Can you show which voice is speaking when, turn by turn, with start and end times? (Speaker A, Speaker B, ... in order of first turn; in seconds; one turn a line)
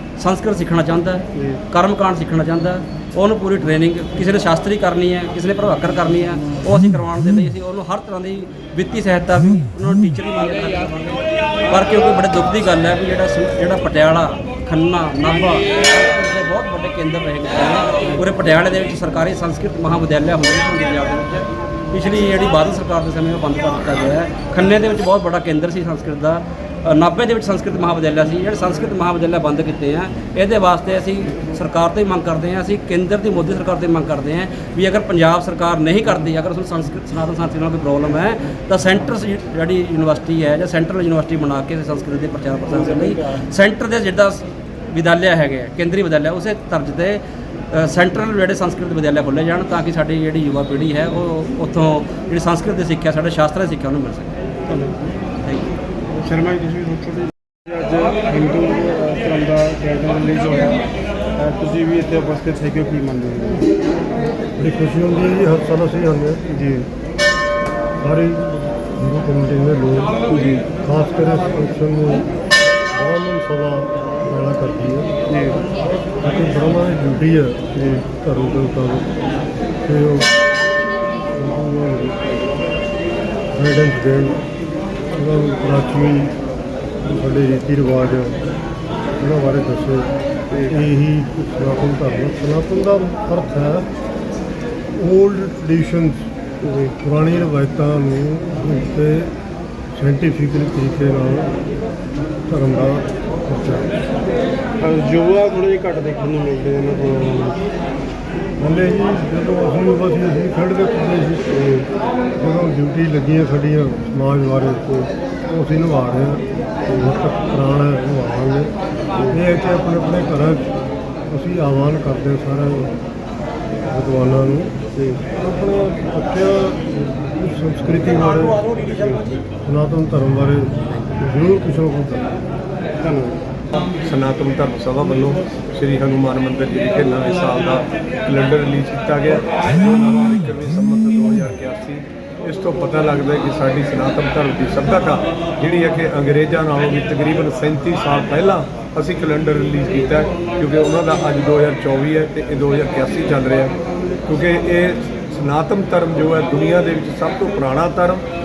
Speaker A: 0.2-54.3
Speaker B: 1.4-1.6
Speaker B: 54.7-54.9
Speaker B: 56.2-60.8
Speaker B: 61.4-63.7
Speaker C: 64.6-66.4
Speaker B: 66.5-66.9
Speaker C: 68.0-70.2
Speaker B: 70.3-70.7
Speaker C: 70.8-72.3
Speaker C: 72.9-75.1
Speaker B: 75.3-75.6
Speaker C: 76.2-79.2
Speaker C: 79.9-80.3
Speaker C: 81.3-82.2
Speaker C: 83.5-84.4
Speaker C: 85.1-86.4
Speaker C: 87.0-88.4
Speaker C: 89.2-90.1
Speaker B: 90.5-90.8
Speaker C: 90.7-93.9
Speaker C: 95.0-96.3
Speaker B: 96.6-97.0
Speaker C: 97.0-99.3
Speaker C: 100.0-101.6
Speaker C: 102.5-103.9
Speaker B: 104.8-107.6
Speaker C: 108.6-111.9
Speaker C: 112.4-118.7
Speaker C: 119.3-120.7
Speaker C: 121.3-122.9
Speaker C: 123.9-124.8
Speaker B: 125.0-125.2
Speaker C: 125.3-128.7
Speaker B: 128.9-129.2
Speaker C: 129.6-132.4
Speaker B: 133.0-133.4
Speaker D: 134.1-153.8
Speaker D: 154.3-158.2